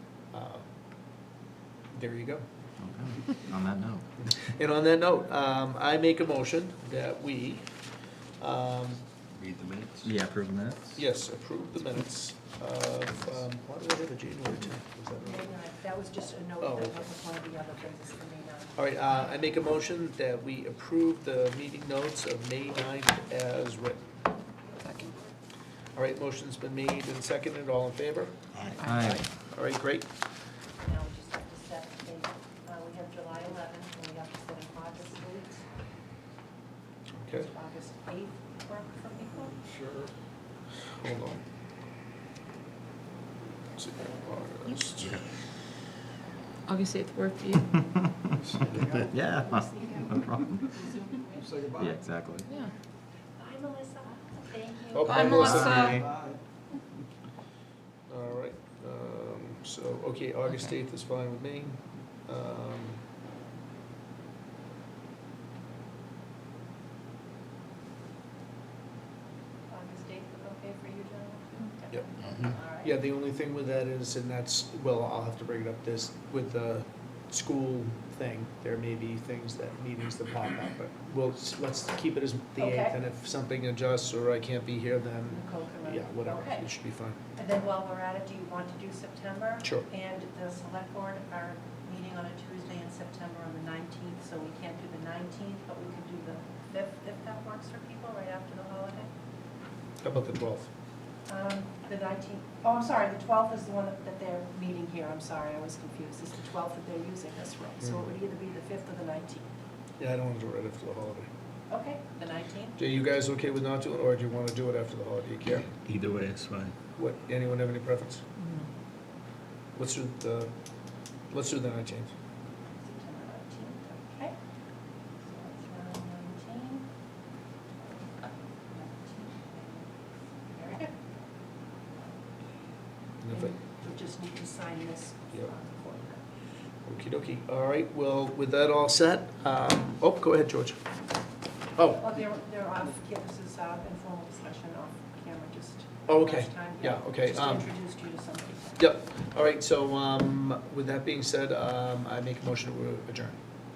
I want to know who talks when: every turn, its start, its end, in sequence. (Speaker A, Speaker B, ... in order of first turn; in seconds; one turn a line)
Speaker A: 0.3-0.7
Speaker A: 1.9-2.4
Speaker B: 2.8-4.0
Speaker A: 4.2-7.7
Speaker A: 8.4-9.0
Speaker C: 9.4-10.1
Speaker B: 10.0-11.0
Speaker A: 10.9-15.6
Speaker D: 15.2-18.8
Speaker A: 16.6-17.2
Speaker A: 18.8-24.1
Speaker E: 24.8-25.1
Speaker A: 25.9-28.5
Speaker E: 28.8-29.2
Speaker B: 28.8-29.2
Speaker A: 29.1-30.1
Speaker D: 30.8-35.6
Speaker A: 37.2-37.5
Speaker D: 37.4-39.6
Speaker C: 39.7-40.1
Speaker A: 40.9-41.4
Speaker A: 43.8-45.2
Speaker E: 46.7-47.8
Speaker C: 48.4-49.1
Speaker B: 48.8-50.8
Speaker C: 51.5-51.9
Speaker B: 51.7-52.5
Speaker D: 53.4-55.9
Speaker A: 54.9-55.9
Speaker E: 55.1-55.9
Speaker B: 55.2-56.1
Speaker C: 55.9-56.3
Speaker A: 58.1-63.0
Speaker D: 69.7-72.9
Speaker A: 71.9-87.2
Speaker D: 82.6-83.0
Speaker D: 85.3-86.7
Speaker D: 87.3-99.1
Speaker A: 100.0-100.7
Speaker D: 101.3-109.5
Speaker A: 110.0-111.3
Speaker D: 111.7-112.8
Speaker A: 112.8-115.7
Speaker C: 115.8-116.7
Speaker A: 117.0-118.2
Speaker E: 118.4-118.7
Speaker A: 119.8-120.5
Speaker A: 121.3-122.1
Speaker D: 122.8-124.3
Speaker D: 125.3-126.9
Speaker D: 127.8-131.1
Speaker A: 133.2-133.5
Speaker D: 133.3-136.2
Speaker A: 136.8-140.8
Speaker A: 141.8-142.0
Speaker D: 142.0-148.8
Speaker A: 146.1-147.7
Speaker A: 148.8-153.4